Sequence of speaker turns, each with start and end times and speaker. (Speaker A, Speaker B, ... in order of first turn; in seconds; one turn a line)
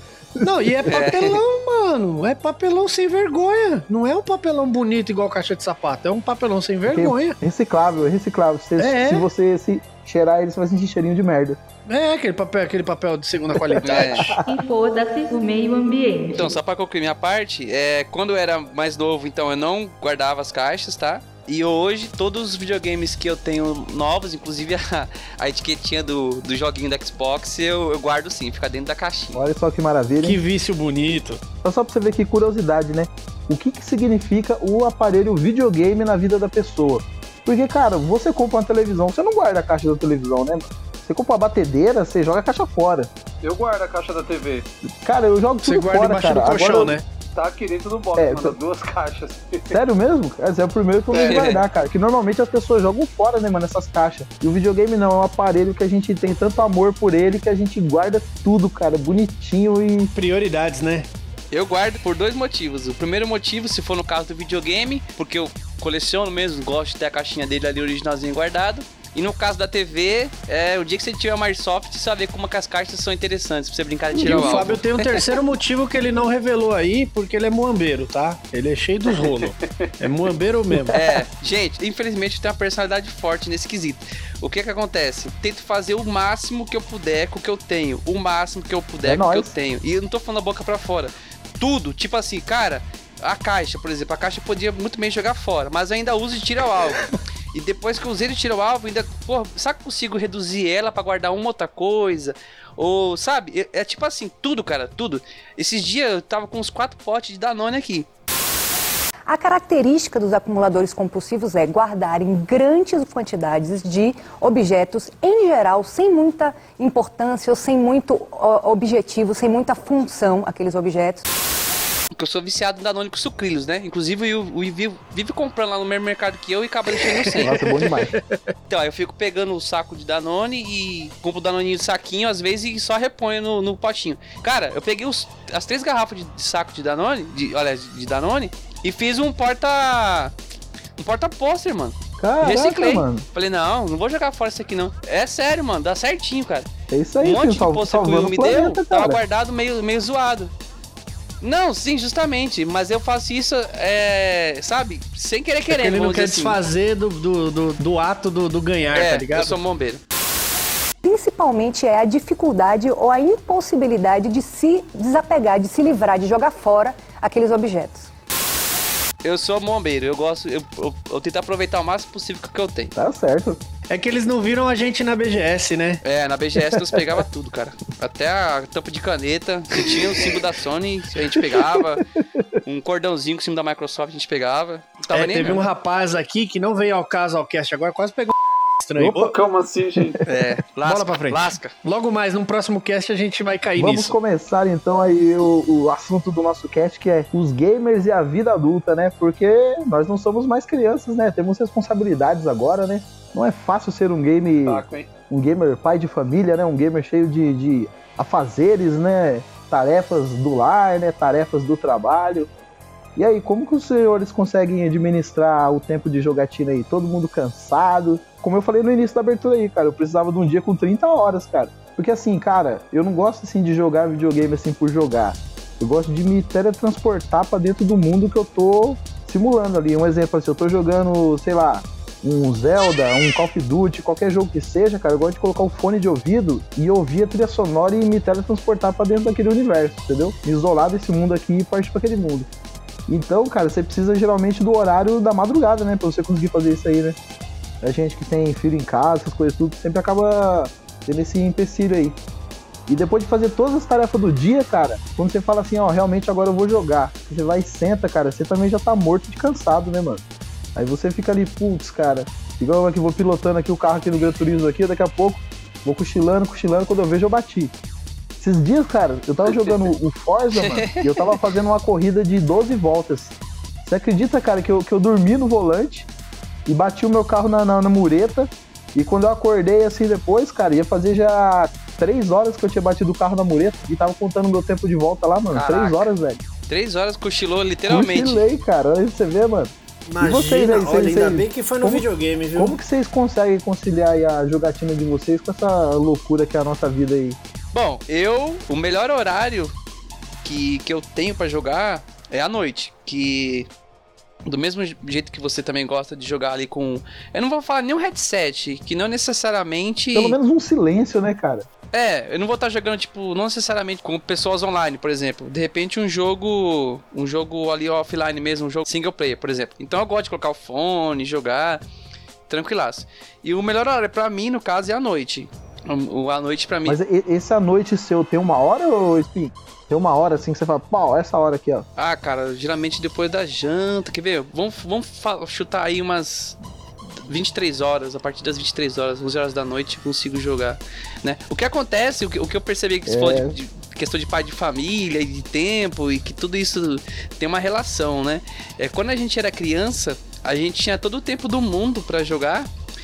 Speaker A: 0.4-1.0
Speaker B: 0.4-7.4
Speaker C: 0.9-1.4
Speaker A: 6.9-11.6
Speaker B: 8.8-9.3
Speaker B: 11.9-14.4
Speaker C: 13.8-14.3
Speaker A: 13.9-14.4
Speaker D: 14.4-16.6
Speaker C: 16.3-29.4
Speaker A: 29.3-30.4
Speaker B: 30.2-31.4
Speaker A: 31.6-43.1
Speaker E: 43.4-44.7
Speaker A: 44.9-47.0
Speaker B: 45.6-47.0
Speaker E: 47.3-49.7
Speaker A: 48.1-48.6
Speaker A: 49.7-60.1
Speaker E: 51.1-51.5
Speaker C: 51.2-51.6
Speaker B: 60.1-61.1
Speaker C: 61.5-75.2
Speaker E: 74.2-74.7
Speaker B: 74.2-81.0
Speaker E: 79.4-80.1
Speaker A: 80.8-81.2
Speaker C: 80.9-108.1
Speaker A: 89.0-89.5
Speaker F: 109.3-121.2
Speaker C: 122.2-127.6
Speaker B: 126.9-128.5
Speaker A: 127.4-128.1
Speaker C: 128.7-140.3
Speaker C: 141.0-146.7
Speaker A: 142.2-143.2
Speaker A: 146.9-149.2
Speaker C: 147.2-150.5
Speaker C: 151.4-156.6
Speaker B: 155.7-159.6
Speaker C: 158.9-160.0
Speaker F: 161.0-168.1
Speaker C: 169.2-172.9
Speaker A: 172.9-173.6
Speaker B: 173.9-176.0
Speaker C: 176.0-182.0
Speaker A: 181.5-182.5
Speaker C: 182.6-185.6
Speaker B: 185.1-189.3
Speaker A: 189.0-189.3
Speaker E: 189.2-190.2
Speaker C: 190.2-191.7
Speaker B: 190.8-194.2
Speaker A: 193.8-212.5
Speaker E: 204.6-205.1
Speaker A: 213.2-242.5
Speaker A: 243.1-247.2
Speaker A: 247.8-252.2
Speaker A: 252.9-260.2
Speaker A: 260.7-267.7
Speaker A: 268.4-273.3
Speaker C: 270.6-271.2
Speaker A: 273.9-276.1
Speaker A: 276.7-286.4
Speaker C: 285.5-286.1
Speaker C: 286.7-288.4
Speaker A: 287.9-297.4
Speaker B: 290.1-292.8
Speaker C: 297.7-299.7
Speaker C: 300.4-303.7
Speaker C: 304.4-310.4
Speaker A: 310.1-311.7
Speaker C: 311.9-321.8
Speaker C: 322.5-327.0
Speaker A: 326.8-331.9
Speaker C: 332.0-336.6
Speaker C: 337.2-352.7
Speaker A: 343.1-343.5